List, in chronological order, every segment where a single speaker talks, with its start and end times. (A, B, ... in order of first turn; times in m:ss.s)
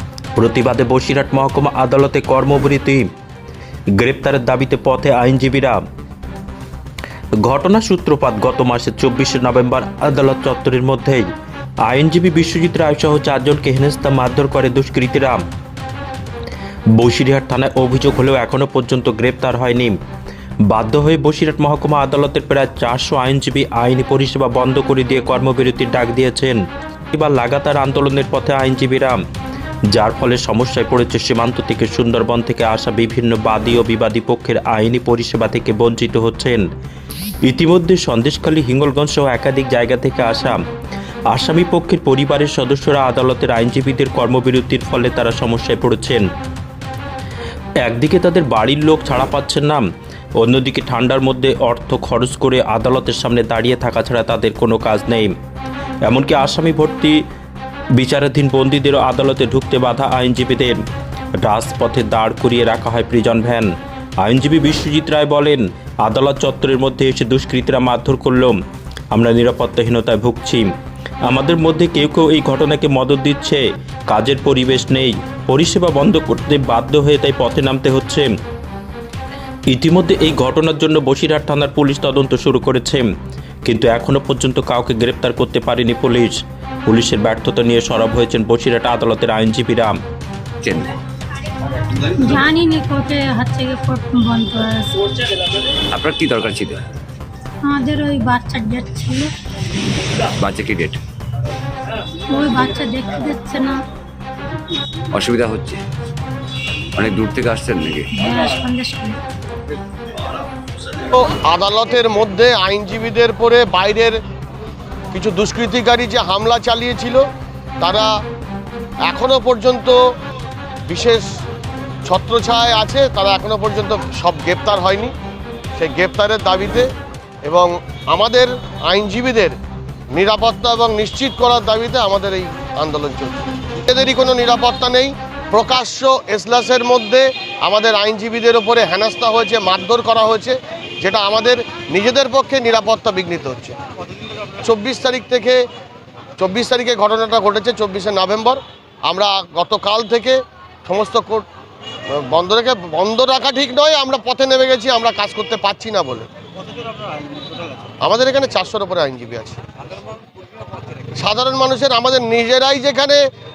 0:00.4-0:03.1 A
0:04.0-0:05.8 A
0:07.4-0:11.3 A
0:11.8-0:15.4 A
0:16.9-0:20.0 A
0:20.7-0:26.6 A
0:27.1-0:29.2 A
0:29.9-0:36.6 A
0:37.4-0:40.6 A
0:41.3-0:46.2 A
0:47.8-0:49.8 A
0:50.4-0:55.3 A
0:56.0-0:57.2 A
0:58.0-1:00.8 A
1:01.4-1:08.6 A
1:09.1-1:10.7 A
1:11.2-1:18.3 A
1:19.7-1:23.0 A
1:23.6-1:30.0 A
1:30.6-1:30.9 B
1:32.1-1:35.0 C
1:35.9-1:36.8 B
1:37.6-1:39.3 C
1:40.2-1:41.0 B
1:42.3-1:43.8 C
1:45.1-1:45.8 B
1:47.0-1:48.1 B
1:48.1-1:49.2 C
1:51.1-1:54.2 D
1:55.1-1:57.2 D
1:57.8-1:58.1 D
1:59.1-2:00.0 D
2:00.9-2:01.2 D
2:02.0-2:05.1 D
2:05.8-2:06.9 D
2:07.4-2:09.5 D
2:10.1-2:23.7 D
2:24.6-2:25.6 D
2:26.4-2:31.4 D
2:32.1-2:36.3 D
2:38.0-2:39.6 D
2:41.2-2:43.2 D